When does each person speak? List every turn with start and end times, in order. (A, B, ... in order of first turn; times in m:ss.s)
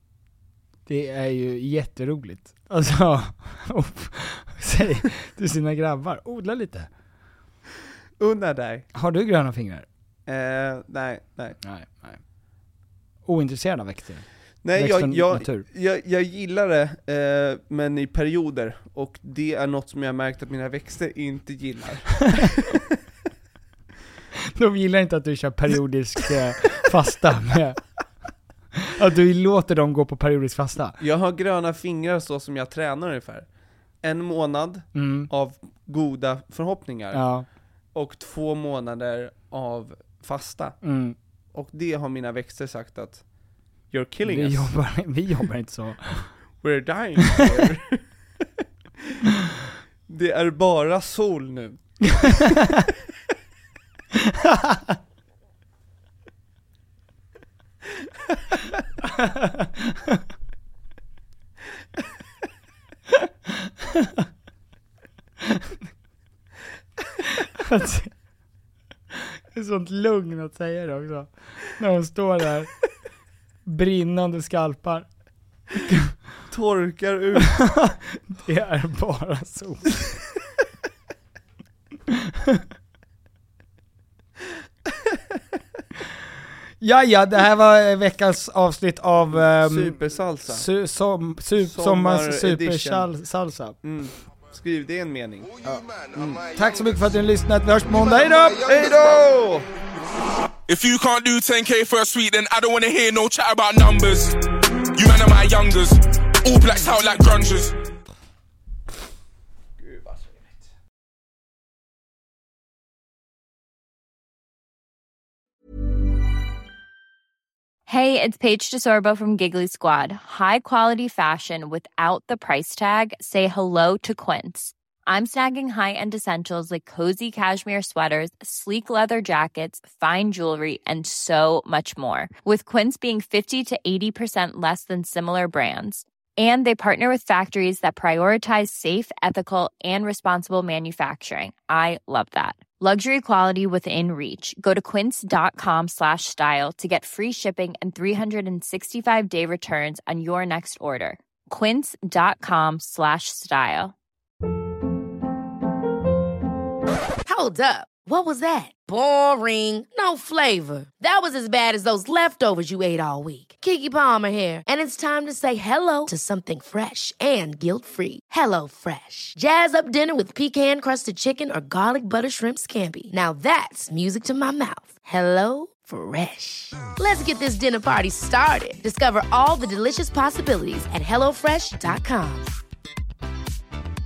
0:00.9-0:06.9 A
0:08.2-0:08.9 B
0:08.9-0:09.9 A
0:10.3-0:11.6 B
0:11.6-0:12.2 A
0:13.3-0:15.7 A
0:14.6-0:23.0 B
0:24.6-0:27.8 A
0:28.8-0:31.0 A
0:31.0-0:33.5 B
0:34.0-0:37.2 B
0:35.0-0:35.3 A
0:37.1-0:37.5 A
0:37.9-0:40.8 B
0:40.8-0:41.2 A
0:41.5-0:43.2 B
0:43.9-0:44.7 B
0:44.3-0:46.4 A
0:46.6-0:48.5 B
0:50.1-0:52.5 B
0:52.1-0:52.9 A
0:54.2-0:55.0 A
0:59.1-1:00.2 A
1:03.6-1:04.3 A
1:07.6-1:08.1 A
1:09.5-1:12.7 A
1:13.7-1:15.1 A
1:15.9-1:16.1 A
1:16.5-1:17.6 B
1:17.5-1:20.0 A
1:26.8-1:33.8 A
1:29.3-1:30.7 B
1:31.6-1:33.1 B
1:33.8-1:35.5 B
1:35.6-1:35.9 A
1:36.1-1:36.5 B
1:36.5-1:38.7 A
1:38.6-1:39.7 B
1:40.7-1:44.4 C
1:45.0-1:47.8 C
1:49.8-1:50.6 B
1:57.9-2:33.9 D
2:37.3-3:02.5 E